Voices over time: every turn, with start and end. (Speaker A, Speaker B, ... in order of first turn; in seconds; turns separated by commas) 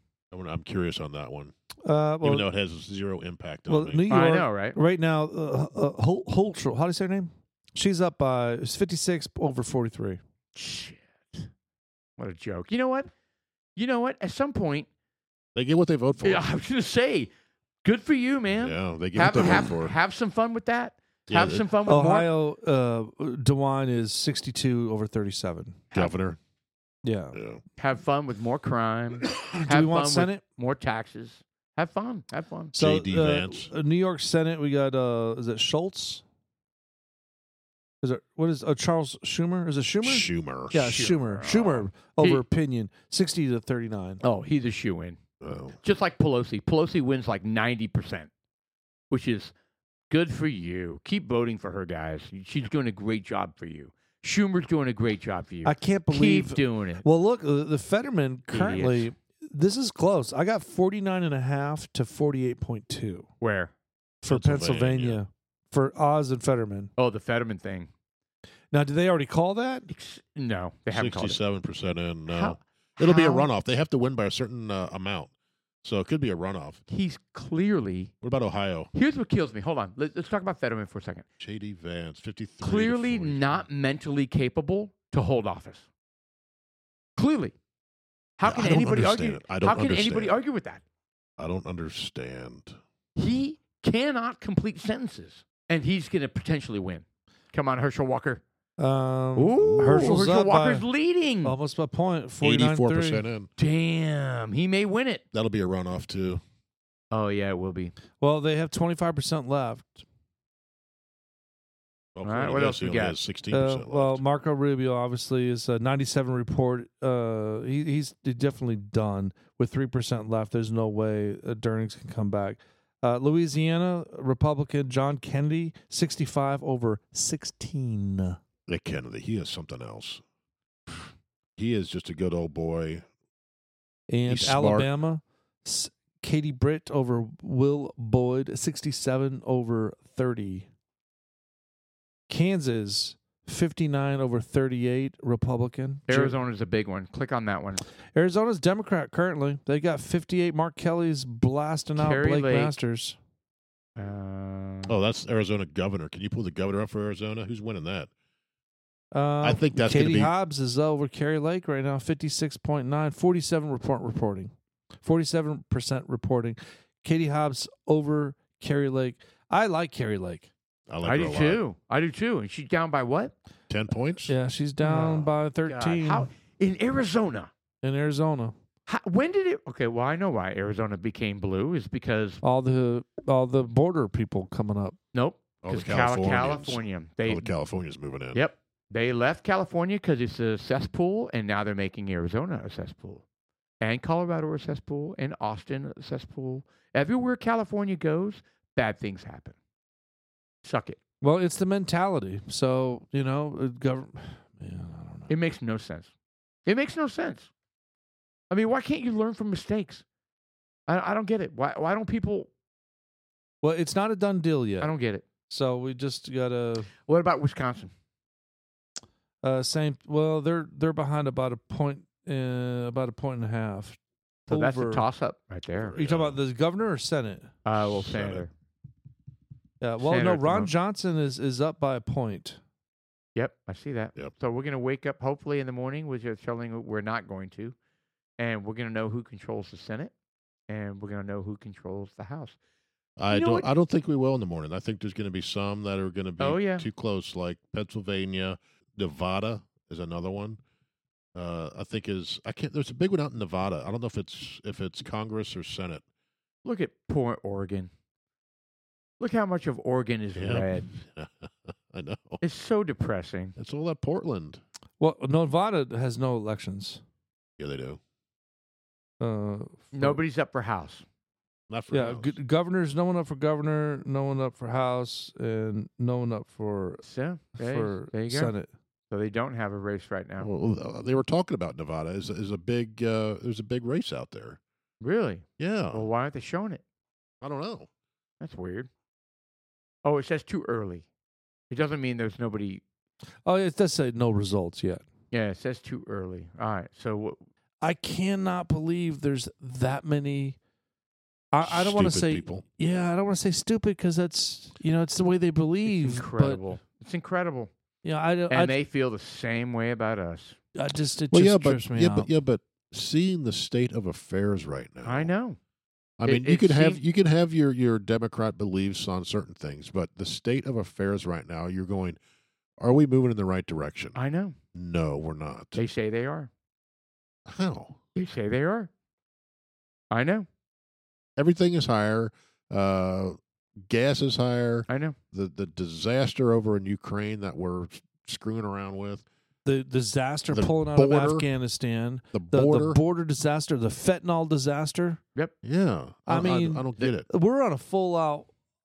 Speaker A: 0.3-1.5, Speaker B: 1.8-2.5, Speaker A: 2.2-4.0, Speaker B: 3.7-10.2, Speaker C: 4.1-4.8, Speaker C: 10.6-11.5, Speaker C: 12.2-13.1, Speaker C: 13.8-14.9, Speaker A: 15.6-16.4, Speaker C: 16.2-17.3, Speaker C: 17.8-22.3, Speaker A: 18.6-19.9, Speaker A: 21.3-21.7, Speaker B: 21.9-25.8, Speaker A: 25.9-26.4, Speaker B: 27.0-27.4, Speaker A: 27.3-27.6, Speaker C: 27.8-32.7, Speaker B: 29.5-30.4, Speaker A: 32.8-33.7, Speaker B: 32.8-36.2, Speaker B: 38.0-44.2, Speaker A: 40.0-40.9, Speaker C: 40.8-42.4, Speaker C: 44.2-45.2, Speaker A: 45.4-45.8, Speaker C: 45.8-48.3, Speaker C: 49.1-49.5, Speaker C: 50.1-57.0, Speaker B: 55.6-63.3, Speaker C: 58.5-59.1, Speaker C: 63.4-63.7, Speaker B: 64.2-66.9, Speaker A: 64.3-65.2, Speaker C: 67.0-67.9, Speaker B: 68.7-69.9, Speaker C: 69.9-71.4, Speaker A: 70.9-75.3, Speaker C: 72.3-73.5, Speaker A: 75.8-76.8, Speaker C: 76.9-78.1, Speaker A: 78.2-78.9, Speaker C: 78.9-81.2, Speaker A: 81.4-83.7, Speaker C: 82.6-85.9, Speaker C: 87.2-87.5, Speaker C: 88.4-90.8, Speaker A: 88.4-90.4, Speaker A: 91.4-92.8, Speaker C: 93.2-98.4, Speaker B: 98.8-100.8, Speaker C: 99.4-101.5, Speaker A: 99.6-100.2, Speaker B: 101.4-103.2, Speaker A: 102.4-103.5, Speaker C: 103.6-105.2, Speaker A: 105.3-106.4, Speaker C: 107.1-107.9, Speaker B: 108.2-110.0, Speaker A: 112.2-114.2, Speaker C: 112.2-113.2, Speaker B: 113.5-128.4, Speaker A: 128.7-130.2, Speaker A: 131.6-133.1, Speaker B: 134.1-140.7, Speaker A: 134.3-134.9, Speaker B: 142.3-146.3, Speaker C: 146.1-147.8, Speaker B: 148.1-153.2, Speaker C: 152.0-152.8, Speaker C: 154.0-154.9, Speaker A: 154.9-158.1, Speaker B: 159.1-170.5, Speaker A: 159.4-160.3, Speaker A: 170.9-171.6, Speaker C: 171.0-173.3, Speaker A: 173.7-174.3, Speaker B: 174.3-176.3, Speaker C: 174.8-177.5, Speaker B: 177.8-178.6, Speaker C: 178.9-182.4, Speaker B: 182.4-185.0, Speaker C: 185.1-187.5, Speaker A: 185.6-188.4, Speaker C: 188.3-193.2, Speaker C: 193.8-199.6, Speaker C: 200.6-201.0, Speaker B: 201.2-205.3, Speaker C: 205.3-206.1, Speaker C: 206.7-207.5, Speaker C: 208.5-210.0, Speaker C: 210.9-212.5, Speaker B: 213.6-214.9, Speaker C: 214.8-215.2, Speaker B: 215.5-216.9, Speaker C: 217.1-217.9, Speaker B: 219.4-225.1, Speaker C: 224.5-226.0, Speaker A: 225.8-226.4, Speaker B: 226.0-227.5, Speaker C: 227.7-228.5, Speaker A: 227.8-228.5, Speaker B: 229.8-232.6, Speaker C: 230.0-230.7, Speaker C: 233.4-237.8, Speaker C: 238.4-240.1, Speaker C: 240.7-242.6, Speaker A: 243.2-250.6, Speaker C: 243.3-243.7, Speaker C: 246.4-246.9, Speaker A: 251.3-256.0, Speaker C: 256.6-257.9, Speaker C: 259.2-260.9, Speaker A: 260.4-262.4, Speaker C: 262.4-263.6, Speaker A: 263.6-264.6, Speaker B: 265.0-267.0, Speaker A: 267.6-268.0, Speaker B: 269.2-270.2, Speaker C: 269.9-271.0, Speaker A: 271.7-272.4, Speaker B: 271.9-277.0, Speaker C: 277.0-278.5, Speaker B: 277.6-278.7, Speaker C: 279.1-280.5, Speaker A: 280.4-284.6, Speaker C: 285.0-286.8, Speaker A: 285.6-286.1, Speaker A: 287.4-287.9, Speaker C: 288.4-288.9, Speaker C: 290.0-291.1, Speaker C: 291.7-292.8, Speaker B: 293.4-295.1, Speaker C: 295.3-297.4, Speaker B: 297.8-300.6, Speaker B: 301.5-306.6, Speaker A: 301.6-302.6, Speaker C: 305.9-307.7, Speaker B: 308.0-308.8, Speaker C: 308.5-310.6, Speaker B: 310.8-312.3, Speaker A: 311.3-315.3, Speaker C: 315.1-315.6, Speaker A: 316.2-322.2, Speaker C: 316.2-317.0, Speaker A: 322.8-324.2, Speaker C: 324.1-324.6, Speaker A: 324.8-325.8, Speaker C: 325.8-326.5, Speaker A: 327.5-328.0, Speaker C: 328.1-328.9, Speaker C: 330.1-330.5, Speaker A: 331.4-339.2, Speaker C: 334.9-335.2, Speaker B: 339.6-345.2, Speaker A: 340.5-341.5, Speaker A: 342.3-343.0, Speaker A: 345.6-347.3, Speaker B: 346.3-348.5